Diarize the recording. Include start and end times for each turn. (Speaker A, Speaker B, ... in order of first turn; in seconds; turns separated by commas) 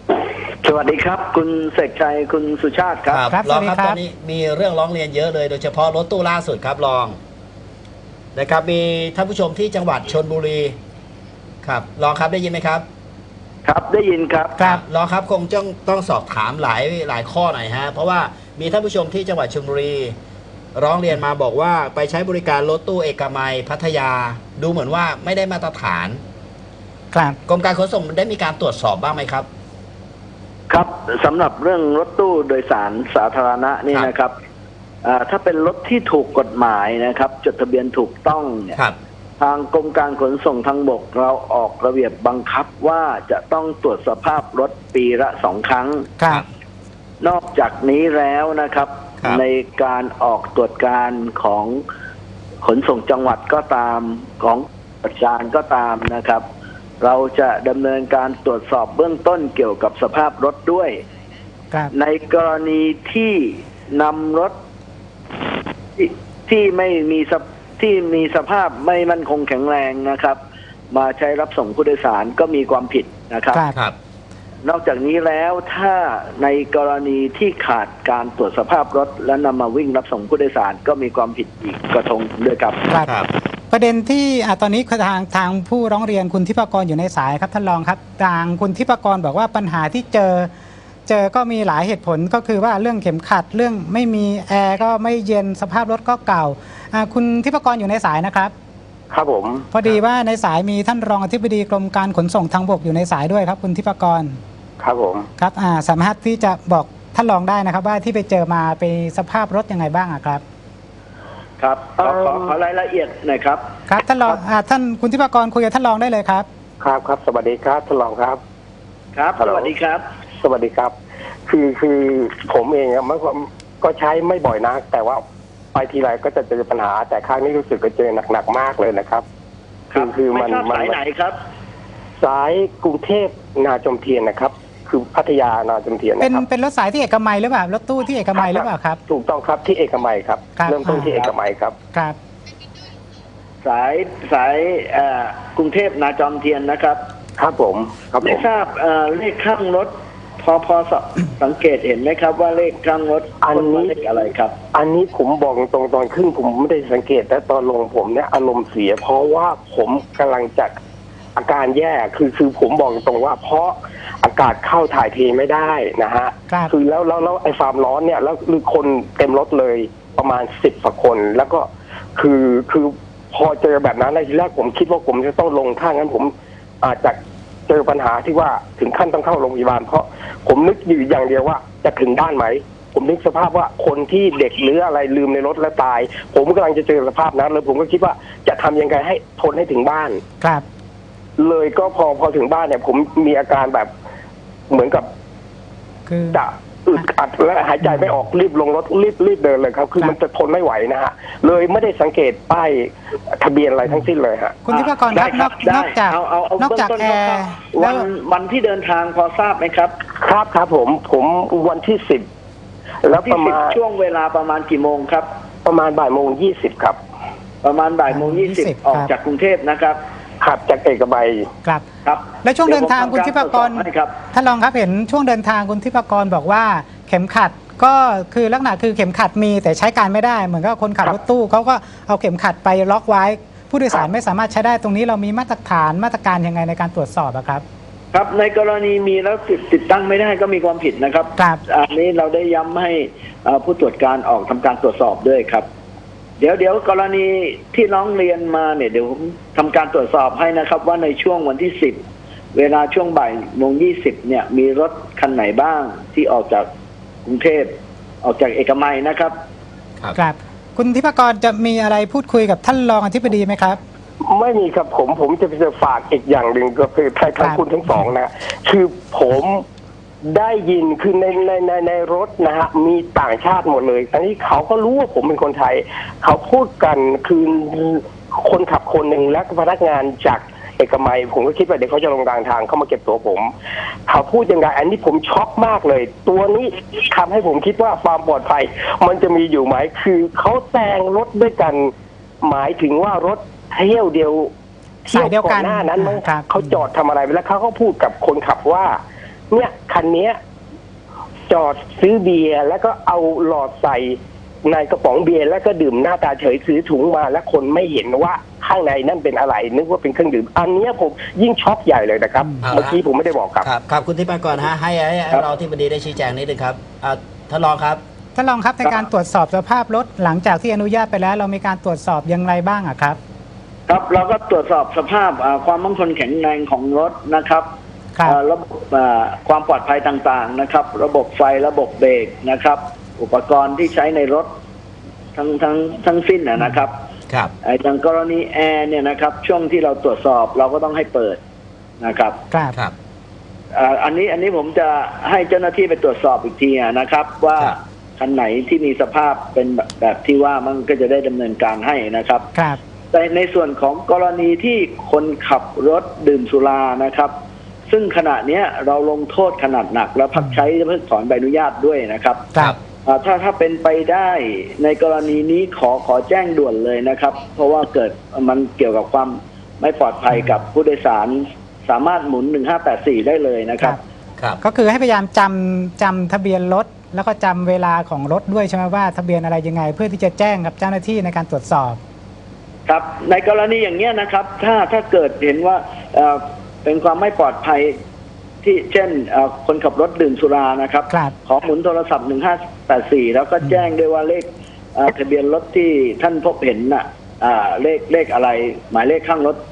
Speaker A: 0.6-3.3, Speaker B: 3.1-7.2, Speaker C: 3.3-4.0, Speaker B: 8.3-10.8, Speaker B: 11.6-12.8, Speaker A: 13.7-14.6, Speaker B: 14.6-20.1, Speaker B: 20.8-26.2, Speaker C: 27.1-27.4, Speaker B: 27.5-29.5, Speaker A: 30.7-34.3, Speaker A: 35.0-38.8, Speaker A: 39.4-46.1, Speaker C: 46.2-46.4, Speaker A: 47.2-51.8, Speaker A: 52.6-56.4, Speaker A: 57.0-61.0, Speaker A: 61.9-64.5, Speaker A: 66.0-70.4, Speaker A: 70.9-73.6, Speaker A: 74.6-82.8, Speaker B: 83.0-83.3, Speaker C: 83.7-90.5, Speaker C: 91.1-98.5, Speaker D: 99.1-99.7, Speaker C: 99.7-104.4, Speaker D: 104.8-105.3, Speaker C: 105.4-110.4, Speaker A: 111.6-113.6, Speaker D: 112.0-112.5, Speaker C: 113.9-116.5, Speaker D: 116.8-118.4, Speaker A: 119.2-120.0, Speaker D: 119.4-119.7, Speaker D: 120.4-121.0, Speaker D: 121.5-125.2, Speaker D: 125.7-129.2, Speaker A: 129.9-131.4, Speaker D: 129.9-131.0, Speaker D: 132.2-136.4, Speaker C: 136.2-139.0, Speaker D: 138.4-141.8, Speaker C: 140.6-141.2, Speaker A: 141.0-141.3, Speaker A: 143.6-147.1, Speaker D: 147.4-148.4, Speaker A: 148.2-154.6, Speaker D: 153.4-154.0, Speaker D: 154.7-160.8, Speaker D: 161.4-177.2, Speaker D: 177.7-190.2, Speaker D: 191.4-193.9, Speaker D: 194.7-195.1, Speaker C: 196.1-196.4, Speaker D: 196.3-204.6, Speaker C: 204.7-208.1, Speaker A: 204.7-209.9, Speaker D: 210.2-212.3, Speaker D: 213.1-213.8, Speaker A: 213.1-215.3, Speaker D: 215.7-217.0, Speaker A: 217.6-220.0, Speaker C: 218.1-219.1, Speaker D: 220.4-221.5, Speaker A: 222.1-224.2, Speaker C: 222.4-237.6, Speaker A: 238.1-245.7, Speaker A: 246.4-252.0, Speaker A: 252.5-256.7, Speaker A: 257.2-259.3, Speaker C: 260.2-263.8, Speaker D: 264.2-269.6, Speaker C: 267.4-268.1, Speaker D: 270.2-283.5, Speaker D: 284.1-294.5, Speaker D: 295.1-299.0, Speaker C: 295.1-296.8, Speaker D: 299.5-300.4, Speaker D: 301.5-313.7, Speaker C: 312.4-312.7, Speaker B: 312.6-313.0, Speaker B: 313.6-318.0, Speaker C: 318.4-323.2, Speaker A: 323.9-327.7, Speaker A: 328.2-334.5, Speaker A: 335.4-337.0, Speaker A: 337.6-341.4, Speaker A: 342.0-342.4, Speaker C: 342.5-342.8, Speaker A: 343.7-352.5, Speaker C: 352.6-352.8, Speaker A: 353.1-357.3, Speaker A: 357.9-362.5, Speaker A: 363.1-374.0, Speaker C: 374.6-382.0, Speaker A: 382.9-387.9, Speaker A: 388.6-399.6